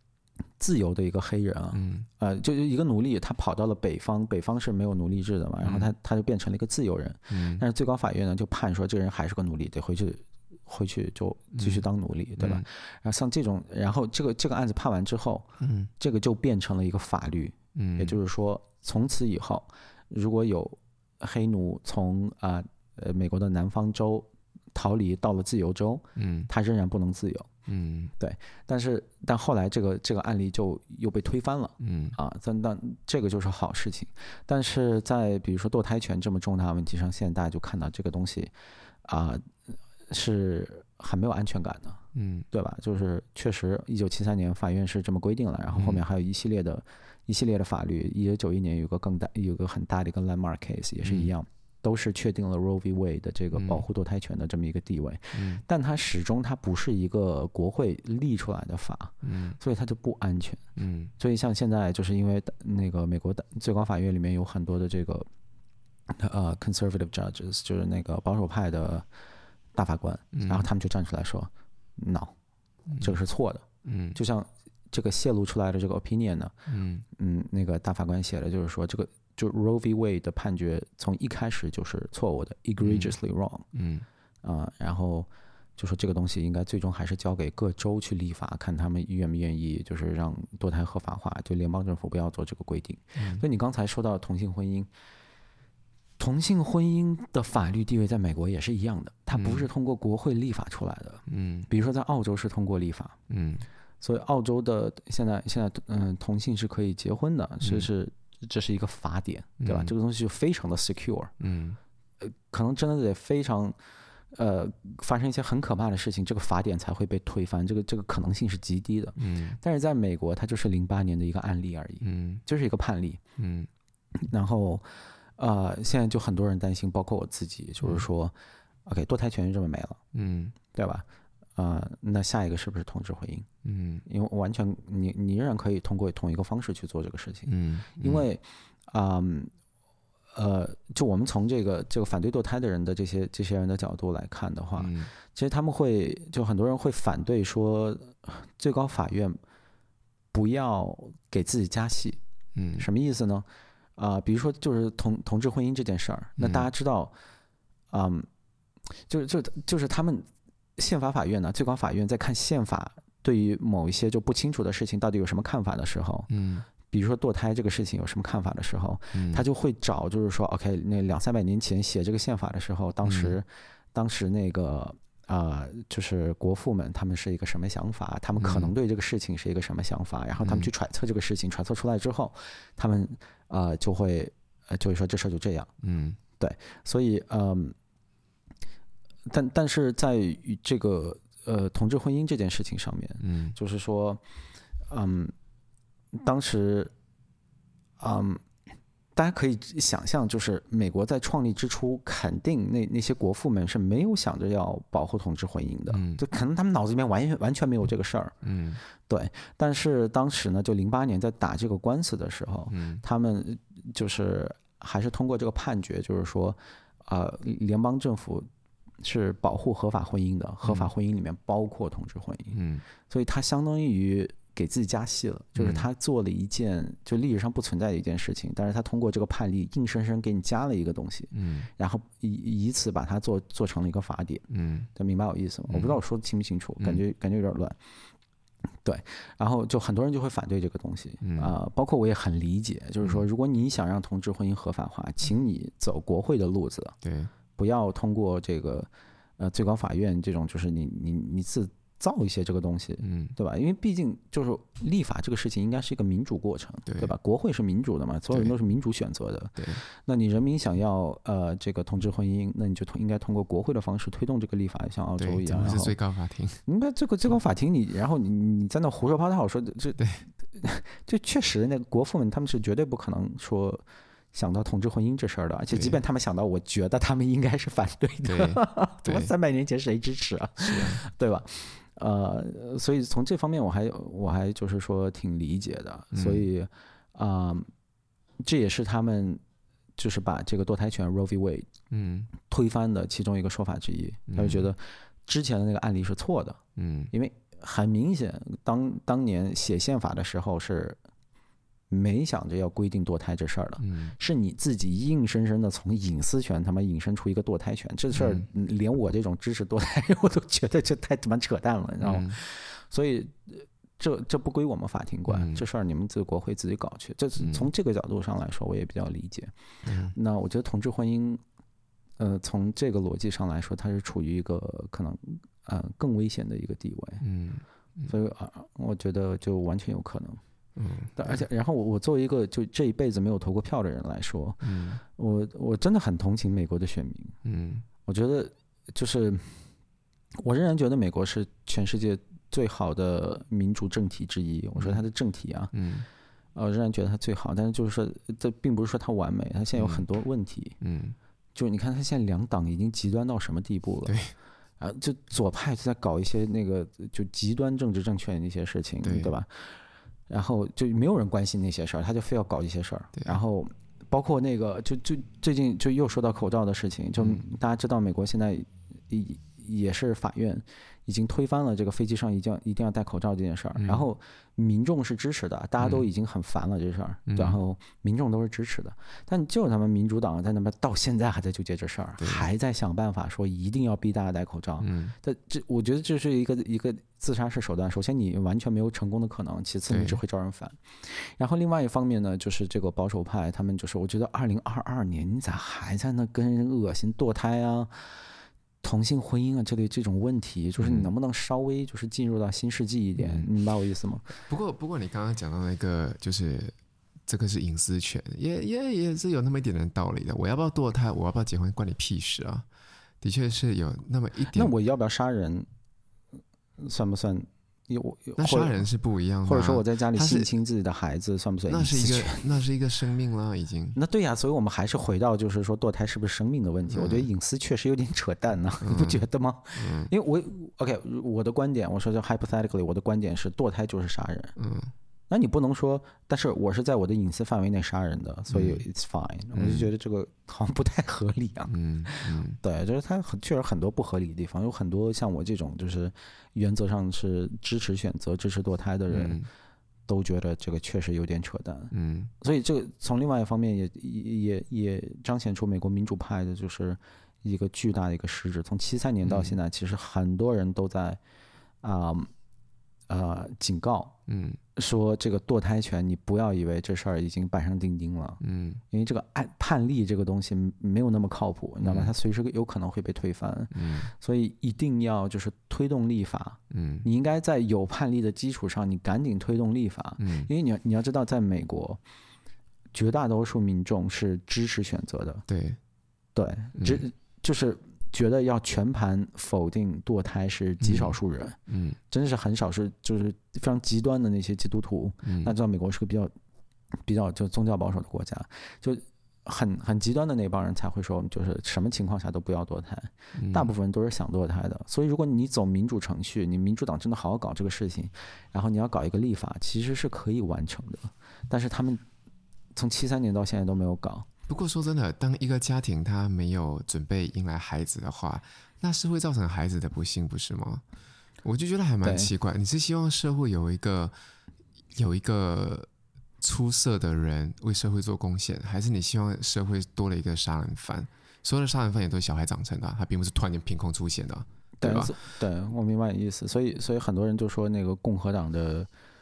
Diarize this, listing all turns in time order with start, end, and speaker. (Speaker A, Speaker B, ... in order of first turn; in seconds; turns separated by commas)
Speaker A: 0.6-15.5, Speaker B: 1.7-2.1, Speaker B: 5.6-5.9, Speaker B: 7.3-7.6, Speaker B: 11.6-11.8, Speaker B: 12.4-12.7, Speaker B: 15.6-15.9, Speaker A: 16.0-27.5, Speaker B: 17.8-18.2, Speaker B: 26.2-26.5, Speaker B: 27.7-28.1, Speaker A: 28.2-38.5, Speaker B: 31.8-32.2, Speaker A: 39.0-39.5, Speaker A: 40.1-60.6, Speaker B: 42.1-42.5, Speaker B: 45.7-46.0, Speaker B: 51.0-51.3, Speaker B: 53.5-53.8, Speaker B: 55.3-55.6, Speaker B: 59.2-59.6, Speaker B: 60.8-61.1, Speaker A: 61.2-65.3, Speaker A: 66.1-69.1, Speaker A: 69.8-72.3, Speaker B: 70.3-70.7, Speaker B: 72.9-73.2, Speaker A: 73.0-76.5, Speaker B: 73.8-74.2, Speaker B: 76.7-77.0, Speaker A: 77.2-83.7, Speaker B: 82.8-83.1, Speaker B: 83.7-84.0, Speaker A: 84.4-94.9, Speaker B: 93.2-93.4, Speaker A: 96.2-103.2, Speaker B: 99.3-99.7, Speaker B: 101.3-101.7, Speaker B: 103.3-103.7, Speaker A: 104.0-111.3, Speaker B: 107.6-107.9, Speaker B: 109.6-109.9, Speaker B: 111.4-111.8, Speaker A: 112.2-113.8, Speaker A: 114.3-123.2, Speaker B: 119.2-119.6, Speaker B: 122.0-122.4, Speaker B: 123.4-123.7, Speaker A: 124.2-128.3, Speaker A: 128.9-130.0, Speaker B: 130.1-130.6, Speaker A: 130.7-131.1, Speaker A: 131.6-133.5, Speaker B: 133.6-134.0, Speaker A: 134.1-137.5, Speaker B: 137.5-138.3, Speaker A: 138.0-139.5, Speaker A: 140.3-149.4, Speaker B: 144.8-145.1, Speaker A: 150.3-152.2, Speaker B: 152.6-152.9, Speaker A: 152.8-153.5, Speaker A: 154.0-157.1, Speaker B: 156.4-156.7, Speaker A: 157.9-158.3, Speaker A: 159.0-166.3, Speaker B: 166.3-166.7, Speaker A: 166.9-185.7, Speaker B: 169.1-169.4, Speaker B: 173.0-173.3, Speaker B: 178.4-178.7, Speaker B: 180.4-180.7, Speaker B: 185.8-186.2, Speaker A: 186.4-187.8, Speaker A: 189.3-194.2, Speaker B: 193.2-193.6, Speaker A: 194.9-195.3, Speaker A: 196.1-196.9, Speaker A: 198.0-198.4, Speaker A: 199.2-208.4, Speaker B: 205.9-206.2, Speaker B: 208.4-208.8, Speaker A: 209.0-218.5, Speaker B: 212.7-213.0, Speaker A: 219.0-222.6, Speaker B: 220.6-220.9, Speaker B: 222.5-222.8, Speaker A: 223.1-237.8, Speaker B: 225.6-225.9, Speaker B: 231.3-231.7, Speaker B: 234.5-234.9, Speaker B: 235.7-236.0, Speaker A: 238.8-247.0, Speaker B: 241.2-241.5, Speaker B: 247.0-247.3, Speaker A: 247.6-266.0, Speaker B: 253.0-253.3, Speaker B: 256.9-257.1, Speaker B: 259.6-259.8, Speaker B: 265.2-266.6, Speaker A: 266.7-287.7, Speaker B: 270.0-270.2, Speaker B: 275.7-276.0, Speaker B: 278.2-279.3, Speaker B: 280.6-281.0, Speaker B: 286.1-286.5, Speaker A: 288.4-289.4, Speaker A: 290.0-291.7, Speaker B: 291.9-292.3, Speaker A: 292.4-296.6, Speaker B: 294.3-294.7, Speaker B: 296.8-297.1, Speaker A: 297.1-301.0, Speaker A: 301.9-319.5, Speaker B: 303.8-304.2, Speaker B: 308.1-308.5, Speaker B: 312.0-312.4, Speaker B: 315.3-315.6, Speaker B: 317.4-317.7, Speaker B: 319.9-320.1, Speaker A: 320.1-321.4, Speaker A: 322.2-327.2, Speaker B: 327.2-328.1, Speaker A: 328.1-330.4, Speaker B: 330.8-331.4, Speaker A: 331.2-337.4, Speaker B: 334.6-335.0, Speaker B: 337.4-337.9, Speaker A: 338.1-339.6, Speaker A: 340.4-345.7, Speaker B: 345.7-346.1, Speaker A: 346.6-350.8, Speaker B: 349.8-350.0, Speaker B: 350.8-351.2, Speaker A: 351.6-354.2, Speaker B: 354.1-354.3, Speaker A: 354.8-359.6, Speaker B: 359.0-359.4, Speaker A: 360.3-397.9, Speaker B: 363.1-363.4, Speaker B: 373.8-374.1, Speaker B: 375.8-376.1, Speaker B: 377.3-377.6, Speaker B: 382.2-382.5, Speaker B: 384.8-385.1, Speaker B: 389.9-390.2, Speaker A: 398.8-404.3, Speaker B: 400.8-401.1, Speaker B: 403.2-403.5, Speaker B: 404.5-406.8, Speaker B: 407.3-412.6, Speaker B: 413.2-414.7, Speaker A: 414.5-415.7, Speaker A: 416.8-418.9, Speaker B: 418.4-420.5, Speaker A: 419.4-422.5, Speaker B: 421.7-424.0, Speaker A: 423.9-434.6, Speaker B: 426.9-427.3, Speaker B: 428.8-429.2, Speaker B: 429.8-430.1, Speaker B: 434.6-434.9, Speaker A: 435.3-449.4, Speaker B: 438.5-438.8, Speaker B: 439.5-439.9, Speaker B: 441.7-442.6, Speaker B: 449.1-449.5, Speaker A: 450.1-461.2, Speaker B: 451.9-452.3, Speaker B: 459.2-459.6, Speaker A: 461.8-462.3, Speaker A: 463.1-464.1, Speaker B: 464.3-464.6, Speaker A: 464.8-482.0, Speaker B: 468.4-468.8, Speaker B: 471.8-472.1, Speaker B: 473.7-474.1, Speaker B: 476.7-477.1, Speaker B: 480.2-480.5, Speaker A: 482.9-485.4, Speaker B: 485.5-485.8, Speaker A: 486.4-491.6, Speaker B: 486.8-487.0, Speaker B: 490.8-491.2, Speaker B: 491.7-492.0, Speaker A: 492.1-496.3, Speaker B: 495.2-495.5, Speaker A: 497.0-512.0, Speaker B: 503.4-503.7, Speaker A: 512.8-514.3, Speaker B: 514.5-520.8, Speaker B: 521.4-524.1, Speaker A: 522.0-522.3, Speaker B: 525.0-525.9, Speaker B: 526.4-535.1, Speaker A: 534.8-538.9